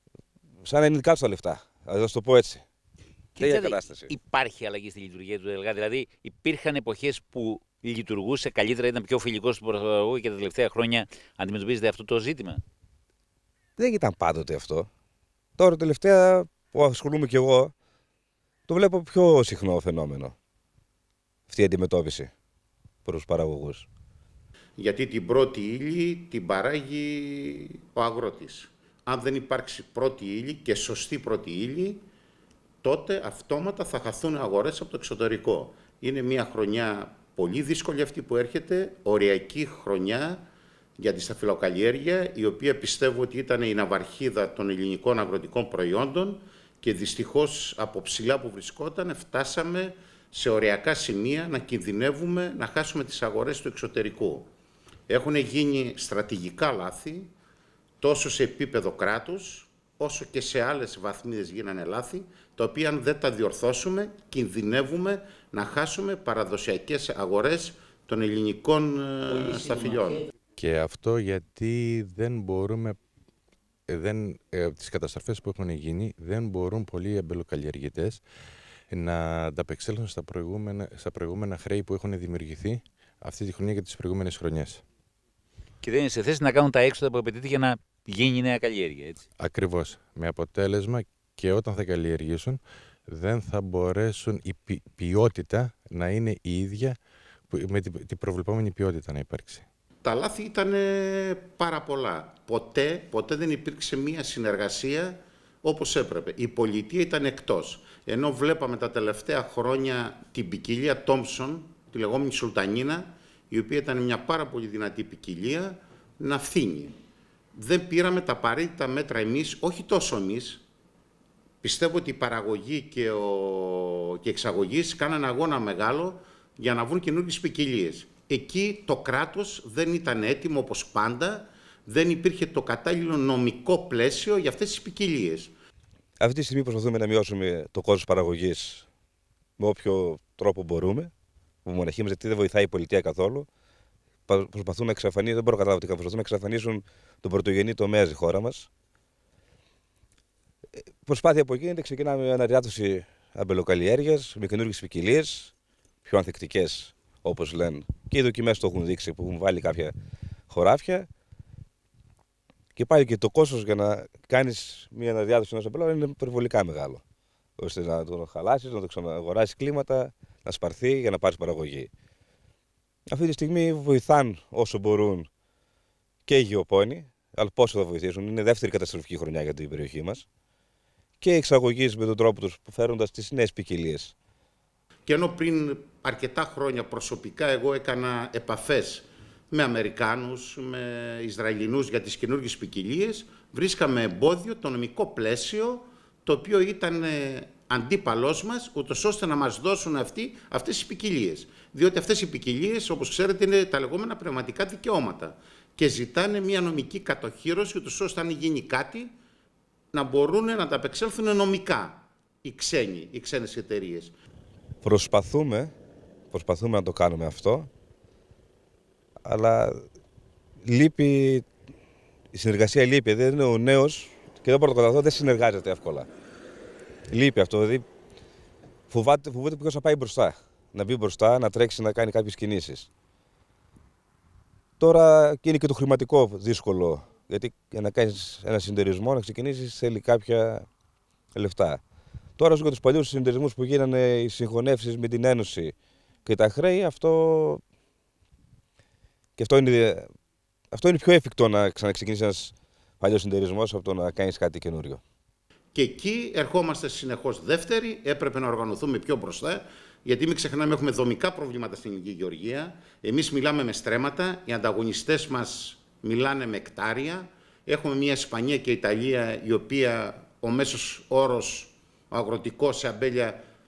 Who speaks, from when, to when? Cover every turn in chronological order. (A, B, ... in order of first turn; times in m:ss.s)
0:00.6-0:02.6 A
0:03.4-0:04.1 A
0:04.4-0:12.5 B
0:13.8-0:14.9 A
0:15.6-0:17.7 A
0:18.7-0:20.4 A
0:21.5-0:22.3 A
0:23.0-0:23.9 A
0:24.8-0:32.0 C
0:32.8-0:40.4 C
0:41.0-0:54.5 C
0:55.1-0:57.3 C
0:58.0-1:10.3 C
1:10.6-1:13.0 D
1:13.9-1:18.2 D
1:18.9-1:24.8 D
1:26.0-1:29.0 B
1:29.4-1:39.7 D
1:40.0-1:57.0 C
1:57.6-2:00.6 C
2:01.6-2:15.5 C
2:16.2-2:18.9 A
2:19.6-2:21.1 A
2:21.6-2:23.5 A
2:24.3-2:28.7 A
2:30.8-2:35.5 A
2:36.0-2:40.0 A
2:40.5-2:41.1 A
2:42.8-2:47.0 A
2:47.6-2:51.9 A
2:53.1-2:55.3 A
2:56.3-3:00.2 A
3:01.2-3:04.1 A
3:05.1-3:29.1 C
3:29.9-3:34.2 C
3:34.8-3:35.7 A
3:36.3-3:37.7 A
3:39.2-3:39.8 A
3:40.6-3:41.5 A
3:42.3-3:46.1 A
3:47.1-3:47.8 A
3:48.9-3:52.9 A
3:54.8-4:00.7 A
4:01.4-4:01.8 A
4:02.4-4:05.7 A
4:06.2-4:07.6 A
4:09.4-4:10.1 A
4:10.7-4:15.0 A
4:15.7-4:33.4 C